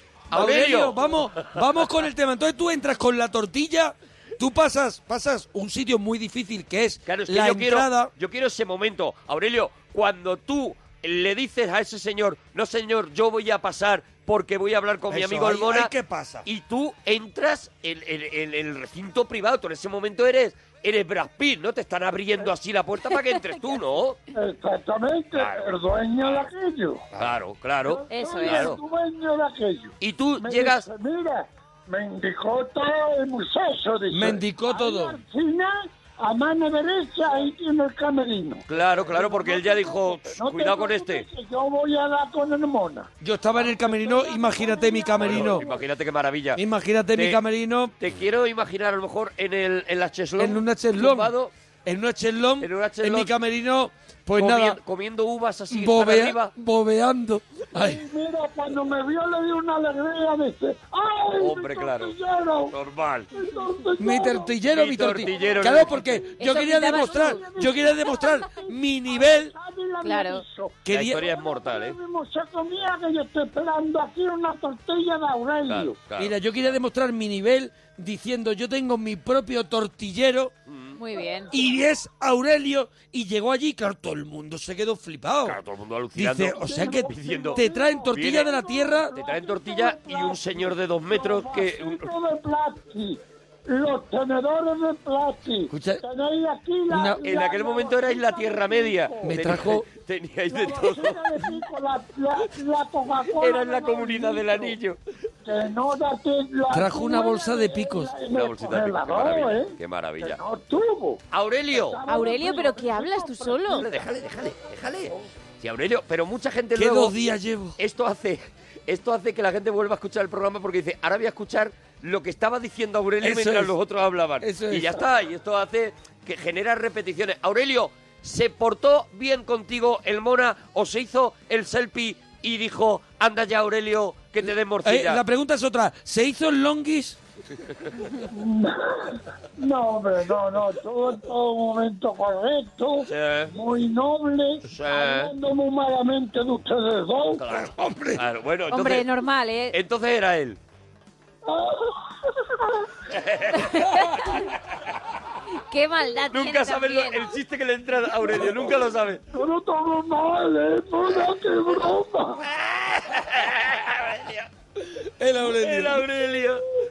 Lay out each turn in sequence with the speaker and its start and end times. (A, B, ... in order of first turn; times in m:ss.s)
0:00.3-0:01.0 A
0:00.3-0:08.1 B
0:07.1-0:15.9 A
0:15.1-0:16.5 B
0:16.4-0:24.2 A
0:23.1-0:23.4 C
0:24.3-0:27.1 D
0:25.4-0:26.5 A
0:27.2-0:28.8 A
0:27.8-0:45.8 D
0:28.1-0:28.7 C
0:30.0-0:30.9 A
0:34.1-0:35.2 B
0:38.7-0:41.2 A
0:43.2-0:45.6 B
0:45.2-0:46.6 A
0:46.6-0:47.9 B
0:47.1-0:47.4 A
0:48.0-0:51.5 A
0:50.4-0:51.3 B
0:51.9-0:54.8 B
0:52.6-0:53.3 A
0:54.4-0:56.5 A
0:55.7-0:58.0 B
0:57.8-1:02.8 D
1:01.4-1:02.1 A
1:02.7-1:03.3 A
1:03.3-1:04.5 D
1:04.0-1:09.5 B
1:04.7-1:06.0 A
1:05.3-1:16.0 D
1:06.4-1:07.4 C
1:10.0-1:10.4 C
1:10.8-1:11.2 B
1:10.9-1:12.0 A
1:15.7-1:16.4 A
1:16.2-1:20.5 B
1:20.7-1:21.0 A
1:21.0-1:21.5 C
1:21.5-1:25.6 B
1:25.4-1:27.6 A
1:26.2-1:29.1 B
1:26.6-1:39.4 D
1:28.1-1:28.5 A
1:29.2-1:32.1 A
1:35.7-1:36.0 B
1:36.9-1:37.2 B
1:37.2-1:41.4 A
1:39.2-1:39.8 B
1:40.5-1:44.8 D
1:43.4-1:45.0 A
1:45.4-1:53.8 D
1:46.7-1:48.1 B
1:48.3-1:50.4 A
1:51.3-1:52.0 A
1:52.1-1:53.9 C
1:53.7-1:57.2 A
1:56.8-1:57.8 B
1:57.8-2:15.2 A
2:03.2-2:03.8 B
2:04.4-2:04.9 B
2:14.8-2:17.2 B
2:18.3-2:27.4 D
2:23.1-2:23.5 A
2:24.7-2:25.3 A
2:27.4-2:29.1 A
2:27.5-2:28.2 B
2:28.7-2:29.8 C
2:29.7-2:30.6 A
2:31.5-2:32.8 D
2:33.1-2:33.7 A
2:33.6-2:34.3 C
2:35.7-2:37.3 C
2:36.3-2:39.2 A
2:39.3-2:42.4 D
2:42.4-2:44.5 A
2:45.2-2:46.0 B
2:45.4-2:46.6 A